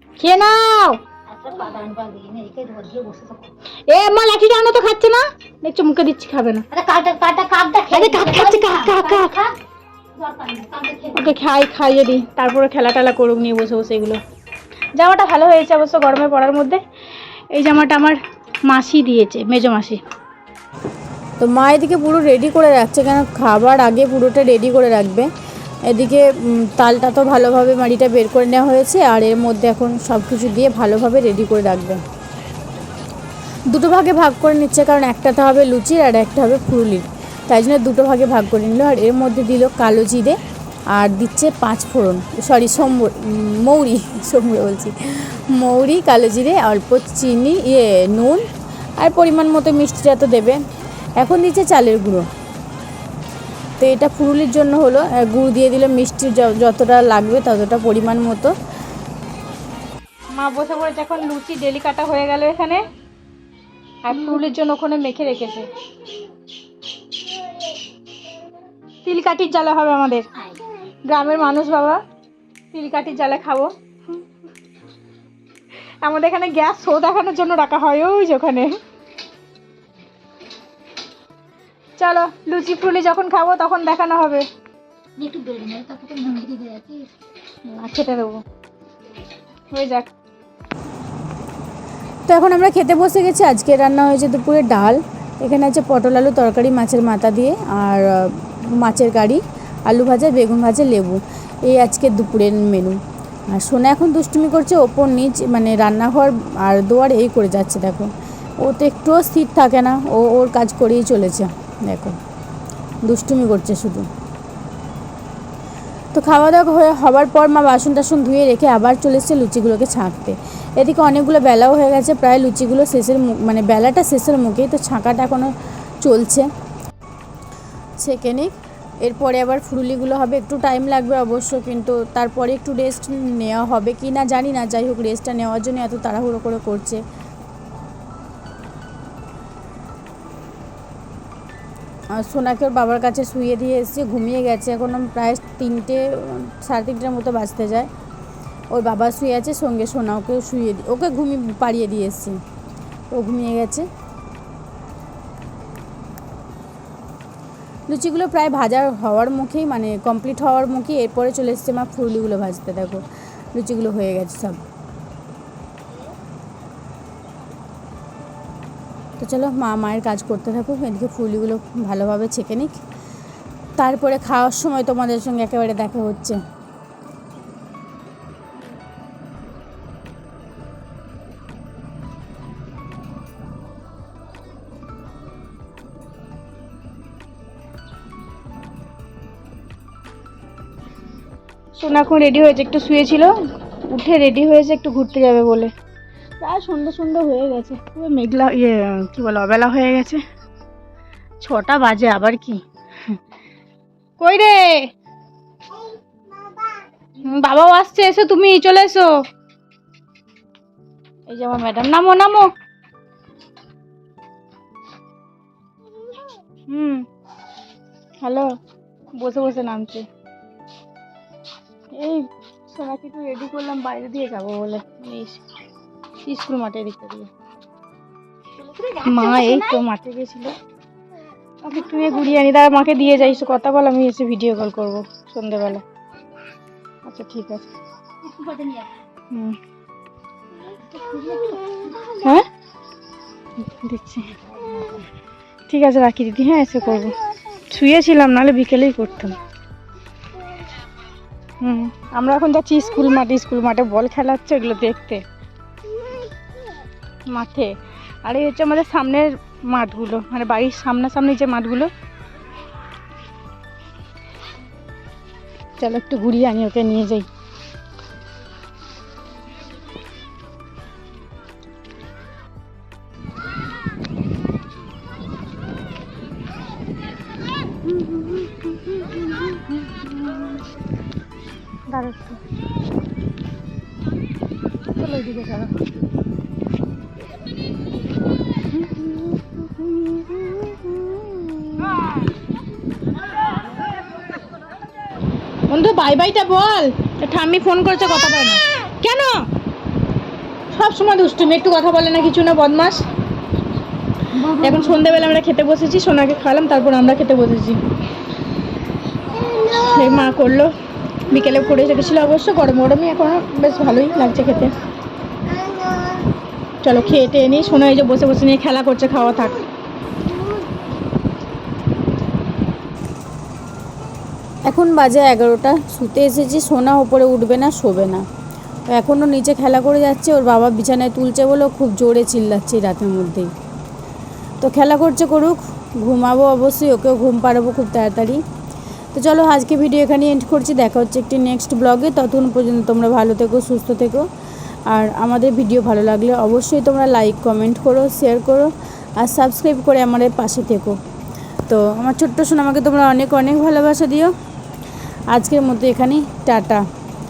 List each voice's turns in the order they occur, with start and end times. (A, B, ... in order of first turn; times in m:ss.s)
0:00.2-0:01.0 A
0:01.3-0:03.5 B
0:03.9-0:06.6 A
0:06.7-0:09.6 B
0:07.9-0:09.4 A
0:10.2-0:11.4 B
0:11.1-0:14.2 A
0:15.0-0:16.8 A
0:17.5-0:20.0 A
0:21.4-0:25.3 C
0:25.9-0:32.0 C
0:33.7-0:40.4 C
0:40.9-0:48.4 C
0:49.0-0:50.6 C
0:51.2-0:52.3 C
0:53.8-0:58.5 C
1:00.4-1:02.9 A
1:04.0-1:05.7 A
1:09.0-1:10.3 A
1:11.0-1:12.0 A
1:12.7-1:13.7 A
1:16.0-1:18.8 A
1:22.0-1:24.5 A
1:25.2-1:27.1 B
1:27.7-1:28.4 A
1:29.7-1:30.1 A
1:32.3-1:43.0 C
1:43.5-1:48.1 C
1:48.6-1:52.2 C
1:53.1-1:54.1 C
1:56.1-2:05.5 C
2:06.0-2:06.5 C
2:08.0-2:08.5 C
2:09.0-2:17.0 C
2:22.2-2:27.9 C
2:28.7-2:32.4 C
2:33.1-2:33.9 C
2:37.9-2:44.6 C
2:49.2-2:52.8 C
2:53.8-2:56.4 C
3:11.8-3:13.4 A
3:13.9-3:15.7 A
3:16.4-3:20.2 A
3:21.4-3:23.2 A
3:24.2-3:24.9 A
3:27.2-3:29.3 A
3:31.3-3:32.5 A
3:36.7-3:37.1 A
3:38.2-3:38.6 A
3:39.2-3:40.1 A
3:42.0-3:45.4 A
3:46.2-3:47.3 A
3:48.6-3:49.8 B
3:49.0-3:50.6 A
3:51.6-3:55.8 A
3:57.0-3:57.7 A
3:58.2-3:58.9 B
3:59.3-3:59.6 A
4:00.9-4:02.2 B
4:02.2-4:02.5 A
4:03.6-4:04.3 A
4:04.5-4:05.1 B
4:05.7-4:07.2 A
4:07.7-4:09.4 A
4:11.6-4:15.2 A
4:17.3-4:21.9 A
4:25.8-4:27.3 A
4:37.8-4:40.6 A
4:41.9-4:42.4 A
4:45.0-4:45.8 A
4:49.0-4:52.1 A
4:55.7-4:59.5 A
5:00.7-5:03.1 A
5:04.4-5:05.4 B
5:04.4-5:07.8 A
5:09.6-5:10.7 A
5:11.3-5:14.8 A
5:16.8-5:19.6 A
5:24.7-5:28.2 C
5:28.9-5:33.5 C
5:34.6-5:38.4 C
5:39.1-5:44.3 C
5:44.9-5:51.0 C
5:51.7-5:54.3 C
5:55.3-5:56.8 C